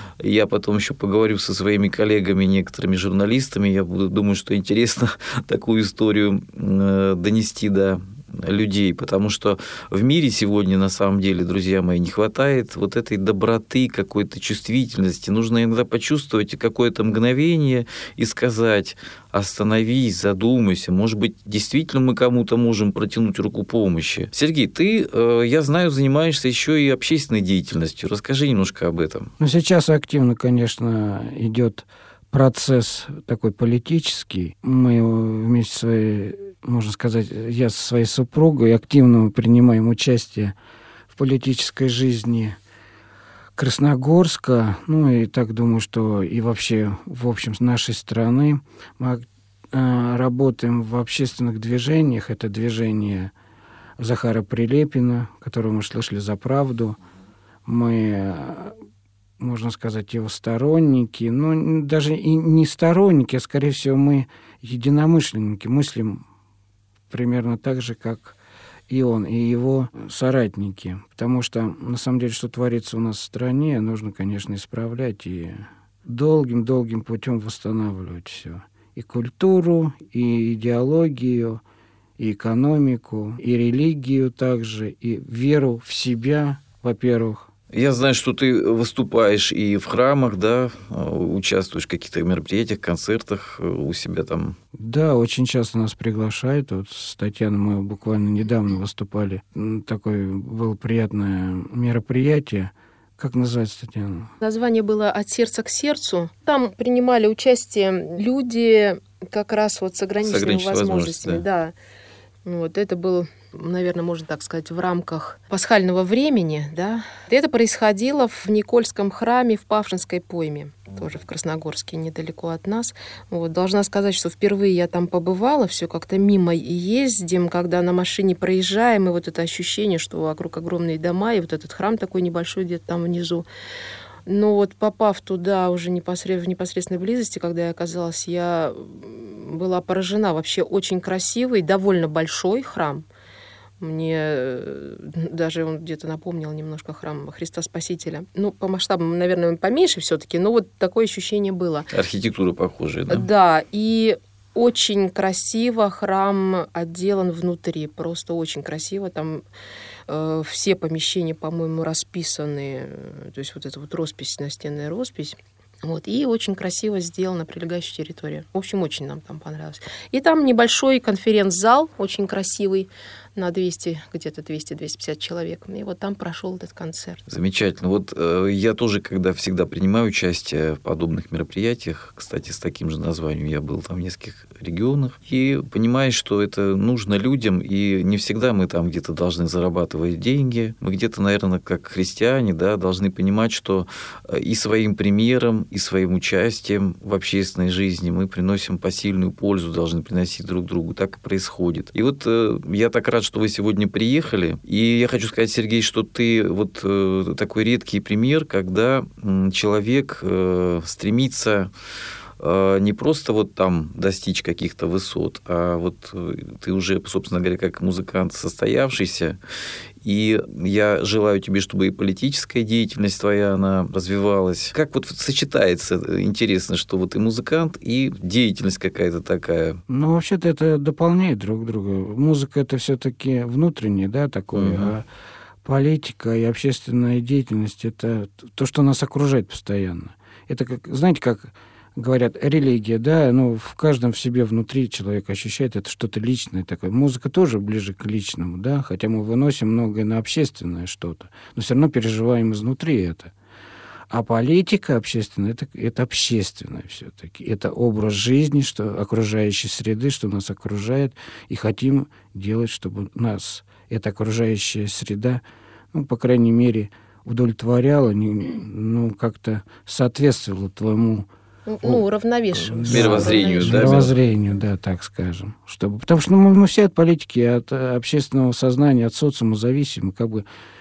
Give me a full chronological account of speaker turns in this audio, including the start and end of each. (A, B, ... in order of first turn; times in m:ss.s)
0:00.2-0:29.3 A
0:29.4-0:40.6 B
0:41.1-0:42.6 B
0:43.6-0:53.3 B
0:54.0-0:57.0 B
0:57.6-0:58.8 B
0:59.4-1:06.2 B
1:07.1-1:08.4 B
1:08.9-1:21.6 B
1:22.2-1:27.5 B
1:27.7-1:34.6 A
1:34.8-1:44.3 B
1:44.4-1:51.8 C
1:50.2-1:51.4 A
1:52.4-2:13.5 C
2:14.3-2:23.0 C
2:23.8-2:31.9 C
2:31.9-2:33.3 A
2:33.1-2:39.4 C
2:40.1-2:57.2 C
2:57.3-3:31.7 A
3:32.4-3:39.4 A
3:40.0-3:49.8 A
3:49.9-3:55.0 B
3:54.5-3:54.9 A
3:55.6-4:13.3 B
4:14.1-4:31.3 B
4:31.7-4:34.0 C
4:32.6-4:40.4 B
4:32.9-4:34.2 A